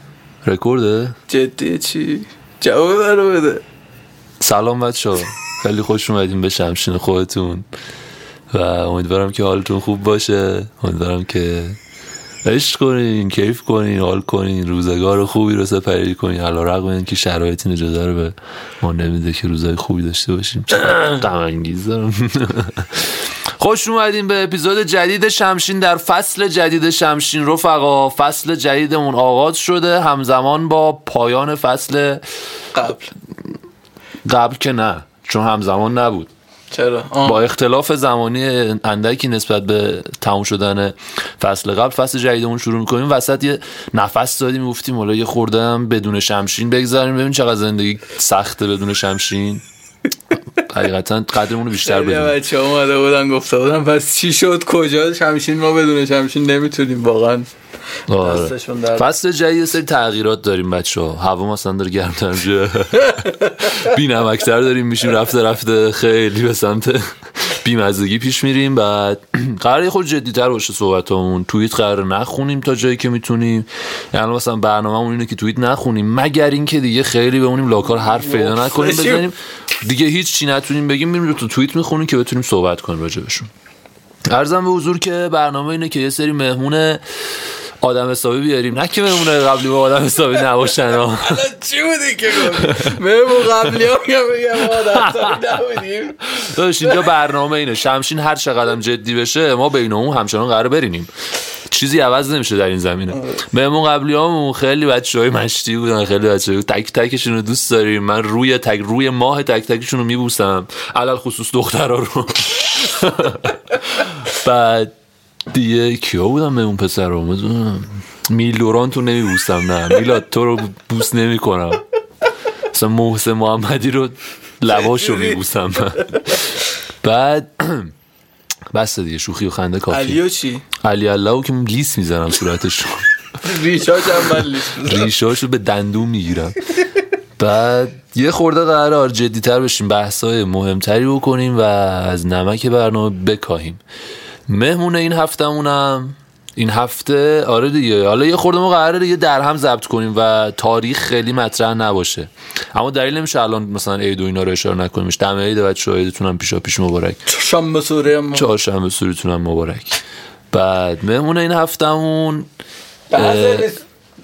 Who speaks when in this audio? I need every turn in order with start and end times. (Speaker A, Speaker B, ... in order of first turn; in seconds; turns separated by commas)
Speaker A: 0.4-1.1, Speaker B: 1.3-3.6, Speaker A: 4.4-7.6, Speaker A: 8.5-11.8, Speaker A: 12.4-32.2, Speaker B: 32.7-33.1, Speaker A: 34.2-36.3, Speaker B: 36.7-37.4, Speaker A: 37.2-49.6, Speaker A: 50.6-52.4, Speaker B: 51.8-57.5, Speaker A: 58.1-83.5, Speaker B: 58.1-59.1, Speaker B: 77.9-79.3, Speaker A: 84.2-87.0, Speaker A: 87.8-91.5, Speaker B: 91.2-97.0, Speaker A: 92.4-93.0, Speaker A: 94.7-95.4, Speaker A: 96.3-101.1, Speaker A: 101.7-114.9, Speaker A: 115.5-121.8, Speaker A: 122.7-126.4, Speaker B: 124.7-125.4, Speaker A: 127.0-127.9, Speaker A: 128.7-130.2, Speaker B: 129.9-130.6, Speaker A: 130.8-133.1, Speaker B: 133.4-135.1, Speaker A: 134.4-136.7, Speaker A: 137.4-143.8, Speaker A: 144.5-157.2, Speaker B: 157.3-158.5, Speaker A: 158.3-160.0, Speaker A: 160.5-162.5, Speaker B: 163.1-163.8, Speaker A: 163.1-163.7